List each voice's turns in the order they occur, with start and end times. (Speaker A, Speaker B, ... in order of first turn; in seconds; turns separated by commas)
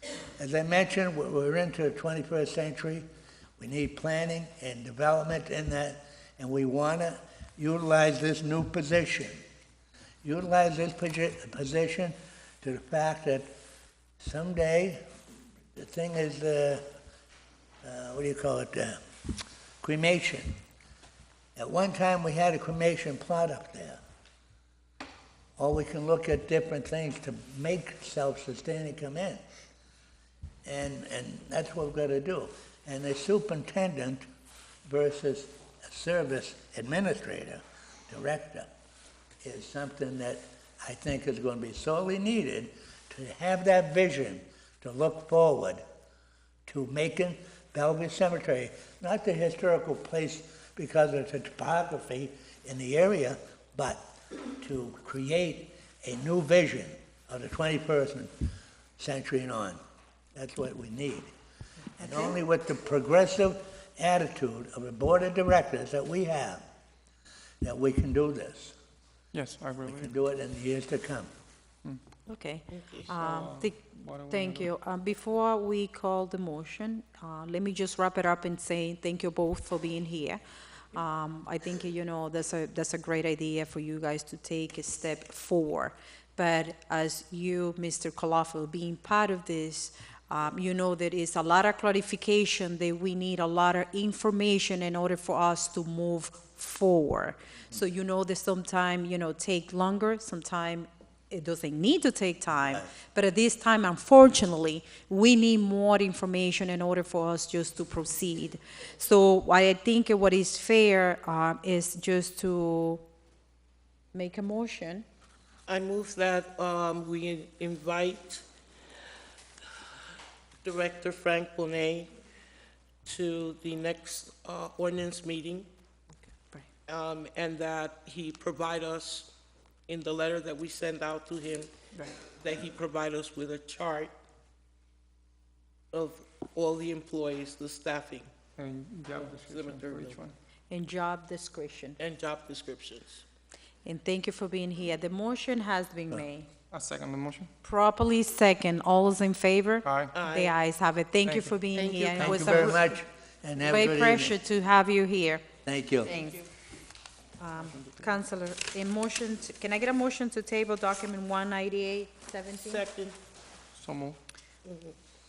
Speaker A: 0.4-3.1, Speaker A: 3.6-9.4, Speaker A: 10.2-13.5, Speaker A: 14.2-15.0, Speaker A: 15.8-16.8, Speaker A: 17.8-19.0, Speaker A: 19.8-20.6, Speaker A: 21.6-24.0, Speaker A: 25.6-29.4, Speaker A: 30.7-34.2, Speaker A: 34.9-38.7, Speaker A: 39.4-45.8, Speaker A: 46.7-54.0, Speaker A: 54.6-58.3, Speaker A: 59.0-59.8, Speaker A: 60.4-61.3, Speaker B: 62.0-62.4, Speaker A: 62.0-66.6, Speaker A: 67.6-68.8, Speaker C: 69.3-69.9, Speaker D: 69.3-70.1, Speaker A: 69.8-71.3, Speaker B: 72.3-80.4, Speaker D: 72.7-73.2, Speaker C: 73.3-73.6, Speaker D: 74.1-74.4, Speaker B: 80.9-113.0, Speaker B: 114.1-115.1, Speaker D: 115.7-118.5, Speaker D: 120.6-122.1, Speaker D: 123.0-125.7, Speaker D: 126.9-129.3, Speaker D: 129.9-134.1, Speaker D: 135.9-138.4, Speaker C: 138.6-140.3, Speaker D: 139.2-140.3, Speaker B: 140.7-142.0, Speaker D: 142.0-143.2, Speaker B: 143.8-146.5, Speaker C: 146.7-147.5, Speaker B: 147.6-152.9, Speaker D: 149.9-150.6, Speaker D: 151.4-152.5, Speaker A: 152.2-154.4, Speaker B: 153.6-155.5, Speaker A: 155.7-156.1, Speaker B: 156.0-156.4, Speaker B: 157.4-162.8, Speaker D: 162.6-163.2, Speaker C: 163.8-164.2, Speaker D: 164.7-164.9